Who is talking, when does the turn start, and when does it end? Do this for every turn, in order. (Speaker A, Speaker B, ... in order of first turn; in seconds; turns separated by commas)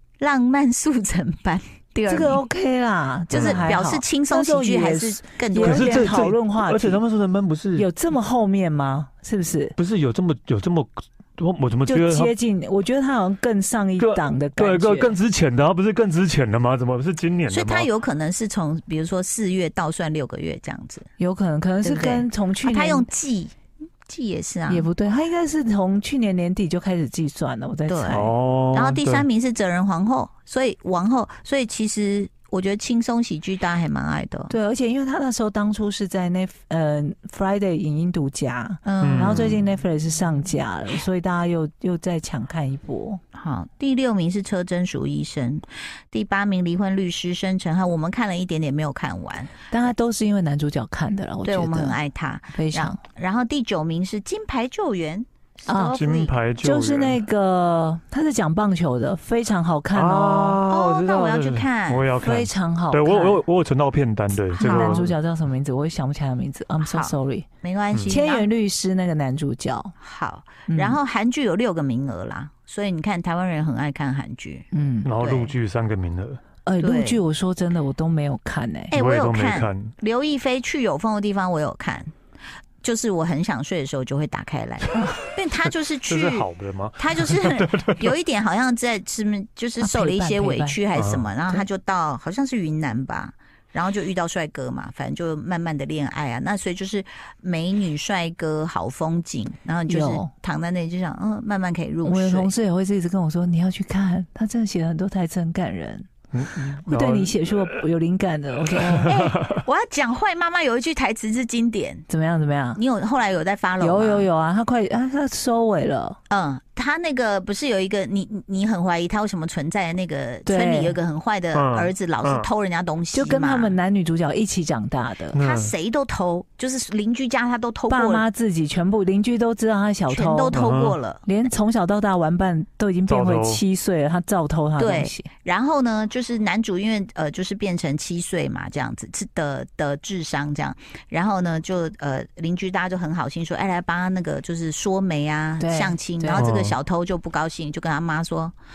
Speaker A: 0.2-2.4, Speaker B: 2.1-7.0, Speaker A: 3.3-6.3, Speaker C: 3.3-3.6, Speaker C: 5.6-7.9, Speaker B: 7.8-9.8, Speaker C: 9.8-12.3, Speaker B: 11.8-15.2, Speaker C: 14.0-17.9, Speaker A: 17.5-21.1, Speaker B: 21.2-23.1, Speaker A: 21.8-23.6, Speaker A: 24.1-24.9, Speaker B: 24.7-28.3, Speaker A: 27.9-28.2, Speaker C: 28.1-29.3, Speaker A: 28.7-34.5, Speaker B: 34.5-43.2, Speaker A: 38.9-39.6, Speaker C: 39.0-39.6, Speaker A: 43.3-49.6, Speaker B: 49.7-52.0, Speaker A: 51.4-56.3, Speaker B: 52.5-53.0, Speaker B: 55.7-56.0, Speaker C: 56.0-57.2, Speaker B: 56.6-60.6, Speaker C: 59.9-65.2, Speaker A: 60.7-62.1, Speaker B: 62.2-63.4, Speaker B: 64.5-67.5, Speaker A: 64.6-65.1, Speaker A: 66.8-68.5, Speaker B: 68.1-69.9, Speaker A: 70.0-74.7, Speaker B: 70.7-71.0, Speaker B: 74.7-75.1, Speaker C: 75.0-76.4, Speaker A: 75.2-75.5, Speaker B: 76.7-78.9, Speaker A: 76.8-77.2, Speaker A: 78.9-82.1, Speaker C: 78.9-80.0, Speaker A: 82.8-102.5, Speaker C: 86.1-88.1, Speaker B: 89.8-90.8, Speaker C: 90.9-91.3, Speaker B: 99.9-100.3, Speaker B: 102.0-106.1, Speaker C: 106.3-107.8, Speaker B: 106.7-109.2, Speaker C: 108.6-109.6, Speaker A: 109.0-112.1, Speaker B: 112.1-112.8, Speaker A: 112.8-114.3, Speaker B: 113.8-116.2, Speaker A: 116.3-123.8, Speaker B: 120.5-121.0, Speaker C: 121.5-122.5, Speaker B: 123.1-125.4, Speaker C: 125.3-125.7, Speaker A: 125.4-128.2, Speaker B: 127.9-130.7, Speaker A: 130.1-131.2, Speaker C: 130.5-131.0, Speaker B: 131.2-135.3, Speaker C: 133.1-133.6, Speaker A: 134.8-148.6, Speaker B: 145.6-146.5, Speaker C: 146.3-146.8